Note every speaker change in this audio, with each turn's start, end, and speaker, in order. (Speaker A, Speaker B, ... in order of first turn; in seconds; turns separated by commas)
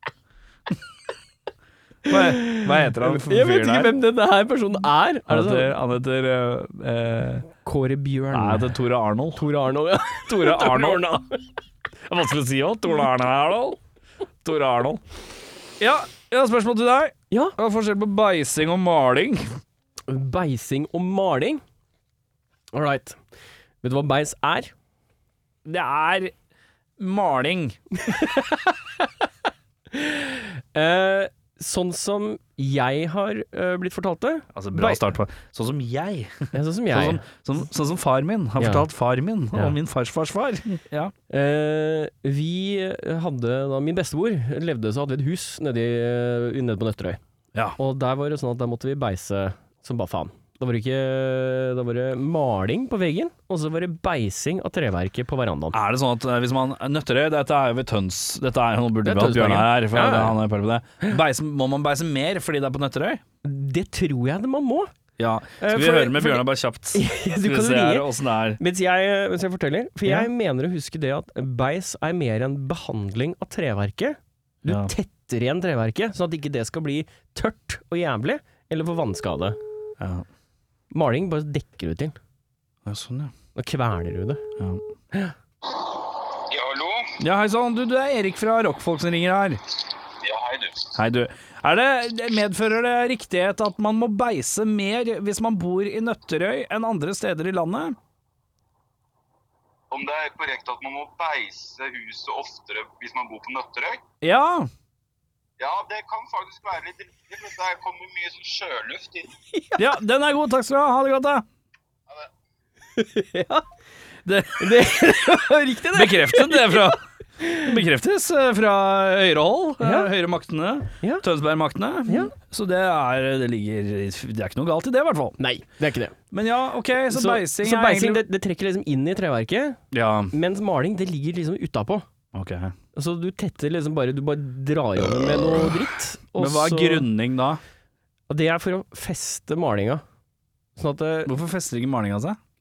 Speaker A: 2.0-3.9, Speaker B: 2.1-5.7, Speaker A: 5.3-7.5, Speaker B: 7.6-8.7, Speaker A: 8.3-9.4, Speaker B: 9.3-11.4, Speaker A: 10.3-11.2, Speaker A: 12.1-13.8, Speaker A: 14.4-15.0, Speaker A: 15.8-19.4, Speaker B: 17.3-17.6, Speaker B: 20.1-21.6, Speaker B: 22.7-23.2, Speaker B: 23.8-24.7, Speaker A: 25.6-26.3, Speaker A: 27.0-27.8, Speaker B: 28.1-28.5, Speaker B: 29.9-35.0, Speaker A: 34.5-41.1, Speaker B: 36.5-37.2, Speaker B: 38.6-38.9, Speaker B: 41.3-47.2, Speaker B: 47.8-55.8, Speaker A: 55.7-63.2, Speaker B: 59.0-60.4, Speaker B: 63.4-64.9, Speaker A: 65.2-68.6, Speaker B: 65.6-68.1, Speaker B: 68.6-79.6, Speaker A: 74.7-74.9, Speaker A: 80.0-80.2, Speaker B: 80.9-82.2, Speaker A: 82.8-83.3, Speaker B: 83.5-84.4, Speaker A: 84.6-84.8, Speaker C: 85.7-87.1, Speaker A: 87.2-89.6, Speaker C: 90.2-90.9, Speaker A: 90.9-98.0, Speaker C: 99.9-104.0, Speaker A: 104.2-104.7, Speaker C: 105.6-109.3, Speaker B: 109.5-109.9, Speaker A: 109.8-111.4, Speaker B: 113.0-113.6, Speaker A: 114.2-114.9, Speaker B: 114.6-117.7, Speaker A: 115.9-125.4, Speaker B: 119.8-120.1, Speaker B: 122.1-122.3, Speaker B: 125.4-126.2, Speaker A: 126.3-128.2, Speaker B: 127.1-129.8, Speaker A: 129.9-130.3, Speaker B: 130.3-132.0, Speaker A: 132.3-132.7, Speaker B: 132.9-137.1, Speaker A: 136.3-137.6, Speaker B: 138.3-140.0, Speaker B: 140.8-141.3, Speaker A: 141.2-142.4